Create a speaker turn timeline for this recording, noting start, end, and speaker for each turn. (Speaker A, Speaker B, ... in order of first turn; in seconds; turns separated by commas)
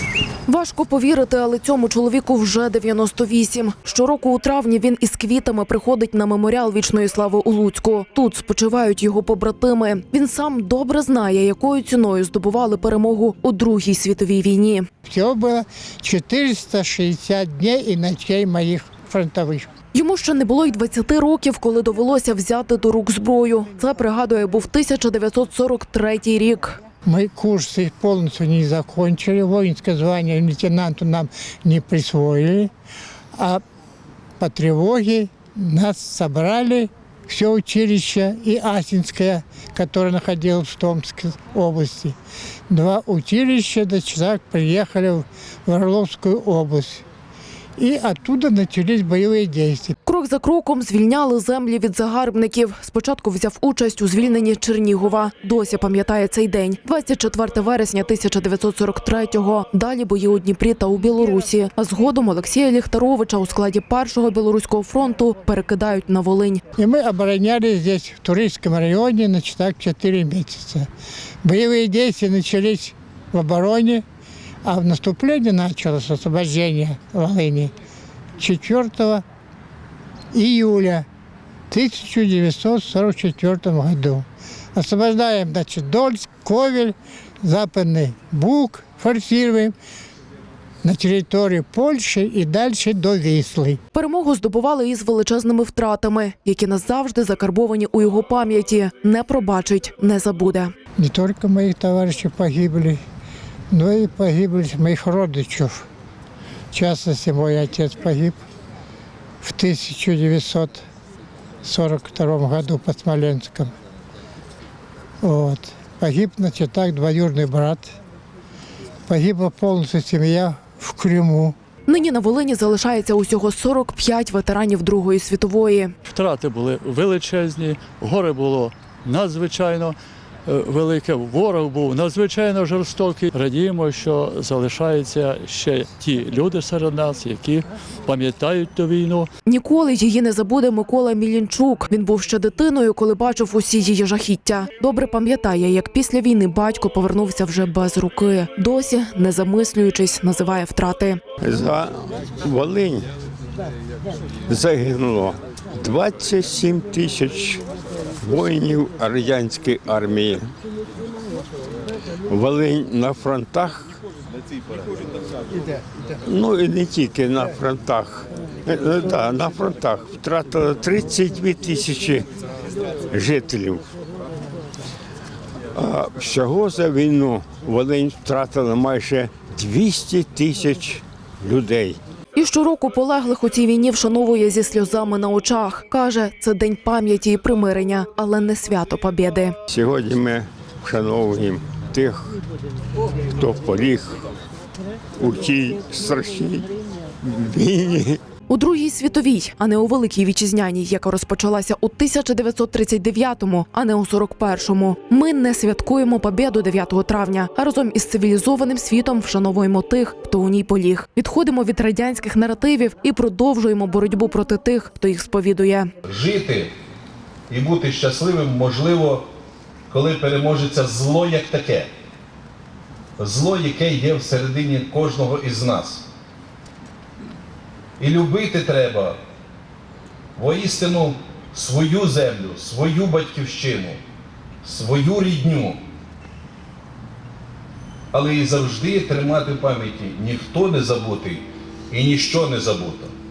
Speaker A: 0.5-14.9, Speaker B: 15.0-19.7, Speaker A: 19.9-26.8, Speaker B: 27.0-32.7, Speaker B: 33.4-33.6, Speaker B: 34.4-42.2, Speaker B: 42.7-47.0, Speaker B: 47.8-50.0, Speaker A: 50.0-66.6, Speaker B: 66.8-70.9, Speaker B: 71.4-74.0, Speaker B: 74.6-77.7, Speaker B: 78.4-79.2, Speaker B: 80.3-81.0, Speaker B: 81.7-89.7, Speaker B: 90.8-93.8, Speaker A: 93.9-100.7, Speaker B: 101.0-103.0, Speaker B: 103.7-105.9, Speaker B: 106.7-108.4, Speaker B: 109.4-110.8, Speaker B: 111.6-113.7, Speaker B: 115.2-118.0, Speaker B: 119.1-121.5, Speaker A: 121.9-125.9, Speaker C: 126.1-139.3, Speaker A: 139.5-151.2, Speaker D: 151.4-153.1, Speaker D: 154.5-157.6, Speaker D: 158.2-160.5, Speaker D: 162.3-164.0, Speaker D: 166.2-172.3, Speaker D: 173.1-173.9, Speaker D: 175.7-182.0, Speaker A: 182.3-189.5, Speaker D: 189.7-192.4, Speaker D: 193.4-194.2, Speaker D: 195.2-196.7, Speaker D: 197.2-198.2, Speaker A: 198.5-215.9, Speaker E: 216.1-216.7, Speaker E: 217.5-219.3, Speaker E: 219.9-221.9, Speaker E: 223.2-226.1, Speaker E: 228.0-229.2, Speaker E: 230.3-234.0, Speaker E: 234.6-235.8, Speaker E: 238.1-243.1